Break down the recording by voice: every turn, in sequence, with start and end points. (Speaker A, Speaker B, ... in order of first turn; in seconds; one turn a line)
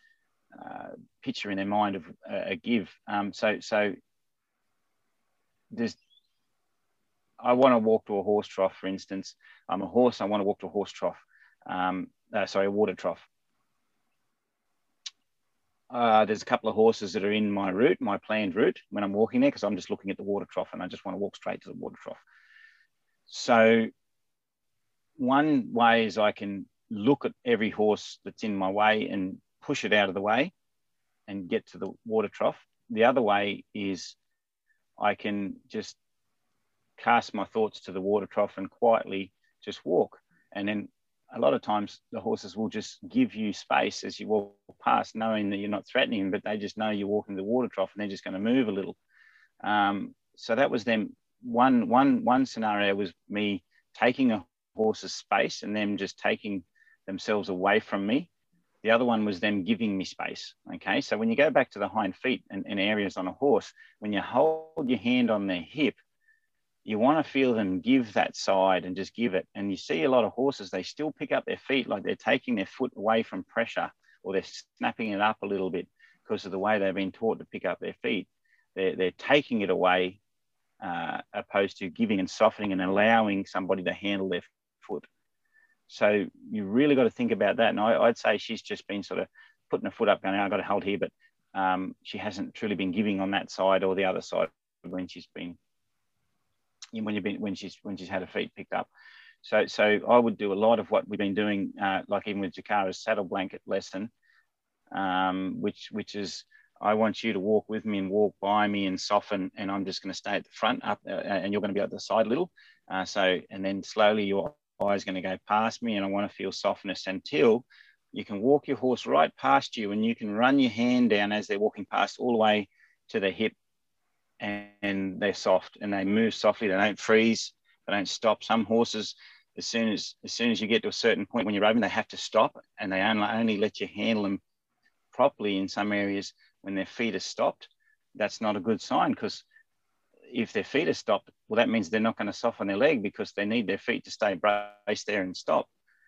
Speaker A: 0.5-4.0
Speaker A: 5.7-6.0
Speaker A: 7.4-13.3
Speaker A: 15.9-22.2
Speaker A: 23.3-23.9
Speaker A: 25.2-30.5
Speaker A: 31.3-34.2
Speaker A: 35.0-36.0
Speaker A: 37.0-49.0
Speaker A: 49.6-58.3
Speaker A: 58.8-66.0
Speaker A: 66.8-80.2
Speaker A: 80.8-85.1
Speaker A: 85.9-95.6
Speaker A: 96.9-98.9
Speaker A: 99.4-104.1
Speaker A: 104.9-123.5
Speaker A: 124.4-134.4
Speaker A: 135.1-139.4
Speaker A: 140.3-145.7